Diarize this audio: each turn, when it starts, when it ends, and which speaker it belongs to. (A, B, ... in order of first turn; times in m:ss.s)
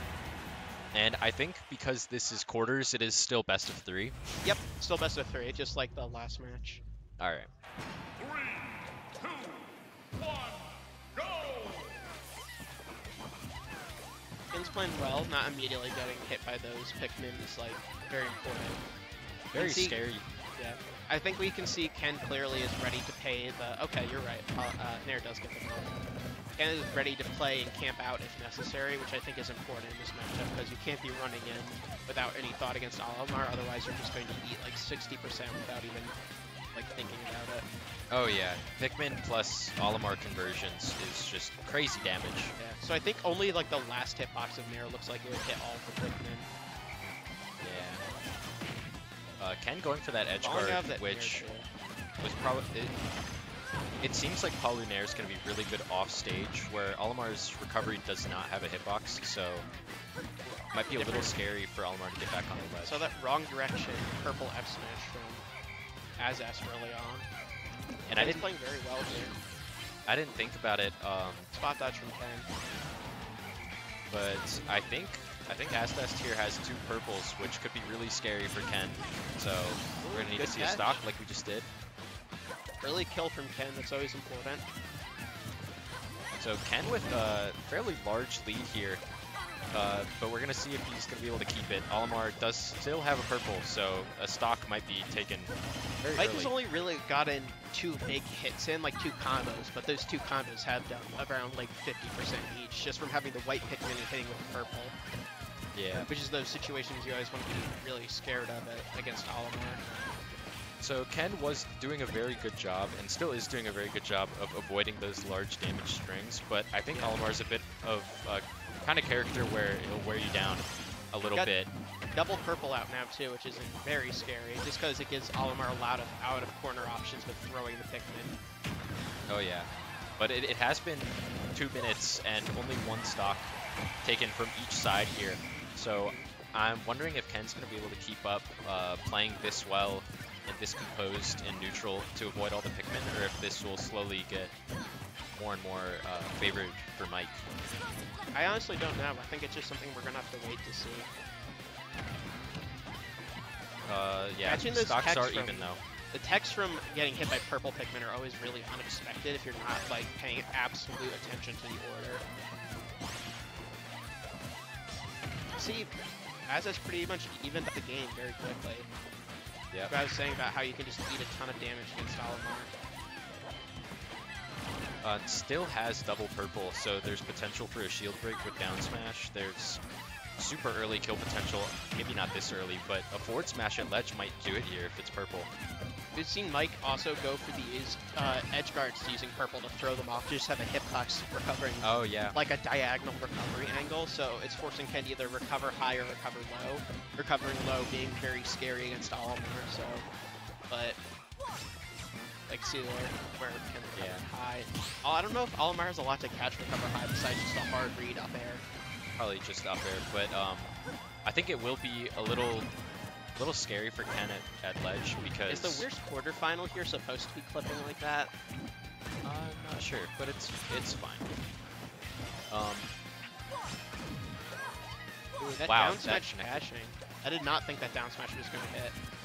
0:00.9-0:04.2 A
0:04.4-0:06.8 B
0:07.2-0:07.5 A
0:14.5-0:18.8 B
0:19.5-0:20.3 A
0:19.6-0:20.0 B
0:20.6-0:25.9 B
0:26.6-0:36.2 B
0:36.7-0:37.6 B
0:38.1-0:42.6 A
0:42.6-0:46.5 B
0:47.6-0:48.0 A
0:49.4-0:51.5 A
0:50.4-0:51.7 B
0:52.2-0:52.9 A
0:54.0-0:59.7 A
1:00.7-1:03.1 A
1:01.0-1:01.4 B
1:02.8-1:05.5 B
1:06.2-1:07.3 B
1:08.1-1:08.5 A
1:08.2-1:09.4 B
1:10.1-1:11.5 A
1:11.5-1:12.5 B
1:14.1-1:21.7 A
1:20.0-1:21.0 B
1:22.8-1:24.6 B
1:26.4-1:29.0 A
1:29.7-1:36.5 A
1:36.2-1:45.0 B
1:45.7-1:46.1 A
1:46.1-1:49.8 B
1:50.8-2:01.7 A
1:56.9-1:57.2 B
2:02.1-2:08.4 B
2:09.3-2:24.5 A
2:16.0-2:16.3 B
2:25.3-2:27.4 A
2:28.3-2:31.1 B
2:33.9-2:35.8 A
2:34.4-2:42.2 B
2:45.6-2:46.0 B
2:46.5-2:48.9 B
2:49.9-2:52.7 B
2:55.0-2:59.8 A
3:00.4-3:05.5 A
3:06.2-3:20.1 B
3:11.8-3:12.4 A
3:20.7-3:21.0 B
3:22.5-3:28.6 B
3:23.9-3:24.3 A
3:29.2-3:30.7 A
3:31.2-3:32.7 A
3:33.4-3:35.9 A
3:35.5-3:38.3 B
3:39.2-3:41.3 A
3:42.5-3:42.9 A
3:45.4-3:49.0 B
3:45.6-3:46.7 A